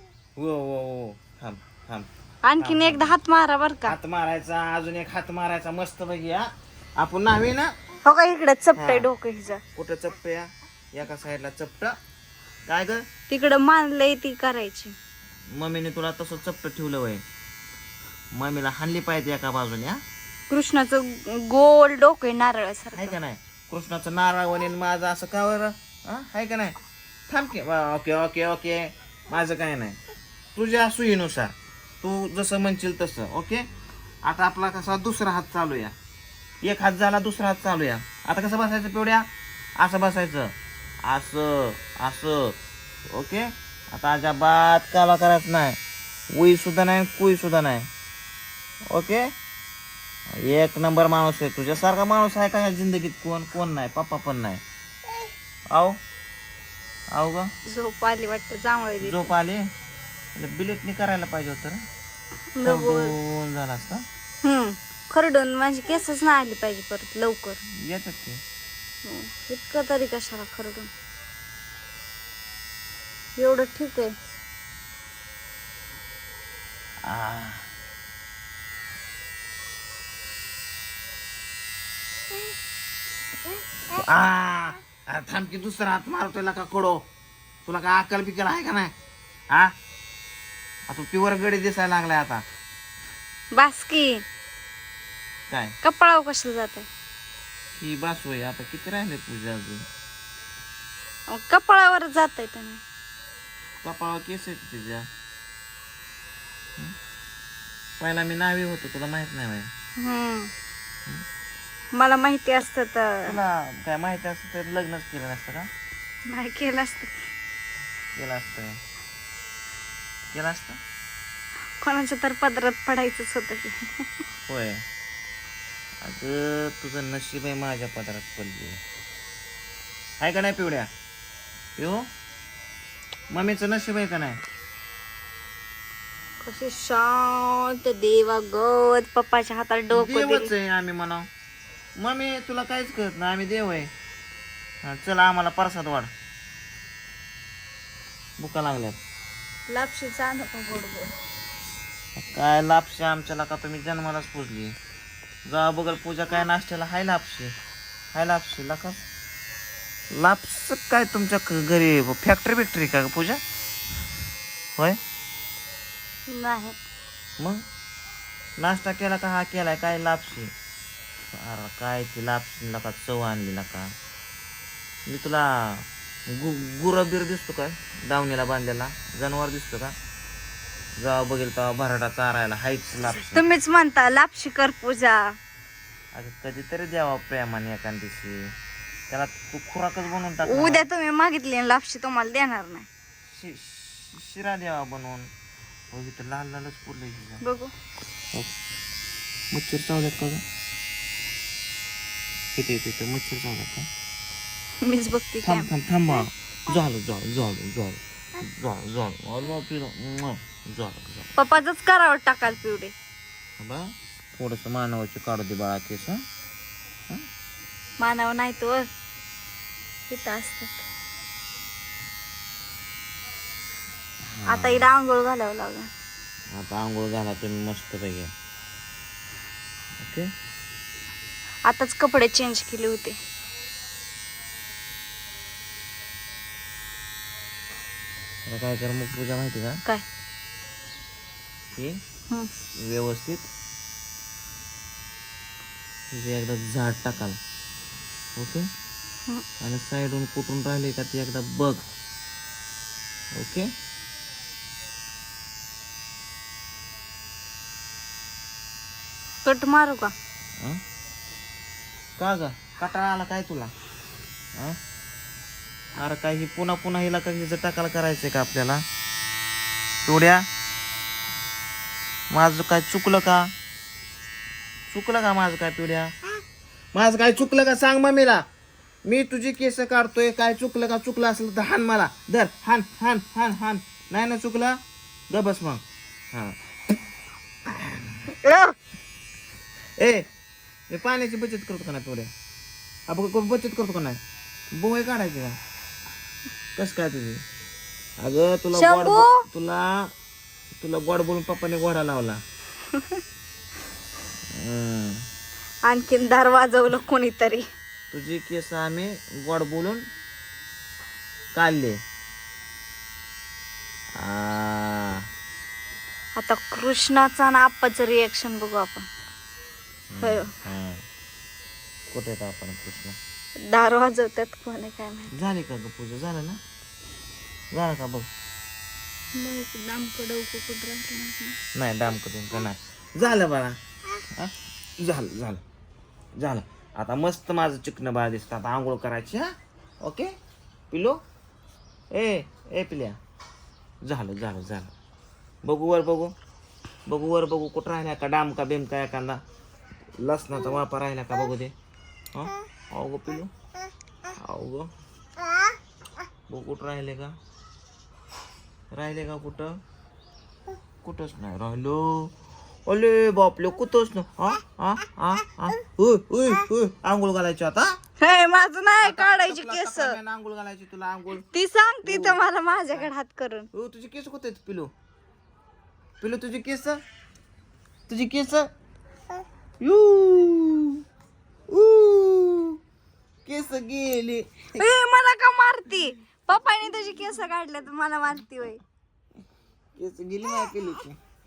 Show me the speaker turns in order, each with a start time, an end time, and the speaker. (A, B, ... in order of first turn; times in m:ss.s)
0:00.4-0:02.1 A
0:02.4-0:03.9 B
0:02.6-0:03.2 A
0:03.8-0:07.7 A
0:08.0-0:09.6 B
0:08.7-0:09.1 A
0:09.8-0:12.0 A
0:12.7-0:13.0 A
0:13.3-0:14.9 B
0:15.5-0:17.2 A
0:18.3-0:20.0 A
0:20.5-0:23.2 B
0:22.9-0:26.7 A
0:27.3-0:30.0 A
0:30.5-0:33.6 A
0:34.2-0:35.9 A
0:36.6-0:39.2 A
0:39.8-0:42.6 A
0:43.1-0:45.8 A
0:46.3-0:47.9 A
0:48.9-0:49.3 A
0:50.3-0:54.6 A
0:55.7-0:56.0 A
0:57.1-0:57.5 A
0:57.6-0:59.3 B
0:59.0-0:59.6 A
1:00.3-1:01.8 A
1:02.5-1:03.1 B
1:02.6-1:04.0 A
1:04.4-1:07.6 B
1:07.8-1:08.4 A
1:09.0-1:10.9 B
1:13.4-1:14.1 B
1:17.0-1:17.7 A
1:23.9-1:27.0 A
1:27.6-1:28.9 A
1:30.9-1:32.4 A
1:33.5-1:34.2 B
1:35.5-1:35.8 A
1:35.8-1:36.9 B
1:37.8-1:39.8 A
1:41.3-1:42.8 B
1:43.8-1:45.0 A
1:48.0-1:49.7 A
1:50.0-1:50.5 B
1:51.9-1:53.4 B
1:53.2-1:55.7 A
1:56.2-1:57.2 B
1:58.2-1:58.8 A
2:00.3-2:00.8 A
2:01.8-2:04.0 B
2:04.5-2:04.8 A
2:06.0-2:08.8 A
2:10.2-2:10.9 A
2:11.8-2:12.1 A
2:13.3-2:14.4 A
2:16.4-2:20.5 B
2:19.9-2:21.3 A
2:22.0-2:23.9 A
2:24.8-2:26.1 A
2:28.4-2:29.0 A
2:29.7-2:31.1 B
2:32.2-2:34.7 A
2:35.4-2:37.5 A
2:38.1-2:39.0 A
2:40.1-2:43.4 A
2:46.3-2:46.8 B
2:48.6-2:50.5 A
2:51.3-2:53.9 A
2:55.1-2:59.9 A
3:01.0-3:03.4 A
3:03.2-3:05.3 B
3:06.1-3:08.5 A
3:09.1-3:10.8 A
3:10.4-3:12.9 B
3:13.3-3:15.3 A
3:15.9-3:17.4 A
3:17.4-3:17.7 B
3:19.5-3:20.4 A
3:22.6-3:23.9 A
3:24.8-3:25.7 B
3:25.4-3:31.3 A
3:31.4-3:32.9 B
3:33.6-3:36.2 A
3:38.0-3:38.9 B
3:40.1-3:40.8 B
3:44.3-3:44.9 A
3:44.5-3:45.9 B
3:46.5-3:48.3 A
3:50.0-3:50.3 A
3:51.6-3:53.2 B
3:58.5-3:59.8 A
4:02.8-4:03.5 A
4:06.1-4:07.4 A
4:08.4-4:08.7 A
4:09.6-4:11.8 A
4:13.3-4:13.7 A
4:19.4-4:20.1 B
4:22.2-4:23.7 A
4:26.0-4:28.8 A
4:30.0-4:30.4 A
4:32.3-4:33.5 A
4:34.9-4:36.1 A
4:36.9-4:38.4 A
4:39.0-4:44.8 A
4:45.3-4:45.8 A
4:47.7-4:48.2 A
4:48.4-4:48.7 B
4:50.0-4:50.3 A
4:50.9-4:52.3 A
4:53.1-4:54.2 A
4:54.7-4:55.6 A
4:56.8-4:57.4 A
4:58.2-5:00.1 A
4:58.7-4:59.4 B
5:00.8-5:02.4 A
5:02.9-5:03.2 B
5:04.5-5:05.2 A
5:05.8-5:07.6 B
5:08.1-5:10.0 A
5:11.5-5:12.0 A
5:14.2-5:15.2 A
5:16.4-5:19.1 B
5:20.1-5:21.0 A
5:20.2-5:20.5 B
5:22.1-5:23.2 A
5:23.6-5:25.3 B
5:25.3-5:26.6 A
5:27.7-5:28.3 A
5:29.3-5:31.6 B
5:31.7-5:33.8 A
5:34.3-5:35.6 A
5:36.4-5:40.3 A
5:40.9-5:41.2 A
5:42.1-5:43.2 A
5:44.0-5:44.9 A
5:45.6-5:46.3 A
5:47.1-5:49.4 A
5:50.2-5:51.7 A
5:52.3-5:53.5 A
5:54.4-5:54.9 A
5:56.5-5:57.3 A
5:58.9-5:59.8 A
6:01.0-6:02.3 A
6:02.9-6:08.0 A
6:08.2-6:10.2 B
6:09.0-6:11.4 A
6:11.4-6:13.7 B
6:12.0-6:12.4 A
6:13.7-6:14.9 A
6:16.2-6:17.0 A
6:18.1-6:18.7 A
6:19.8-6:21.0 A
6:21.7-6:22.8 A
6:23.4-6:24.9 A
6:24.7-6:28.8 B
6:30.0-6:31.2 A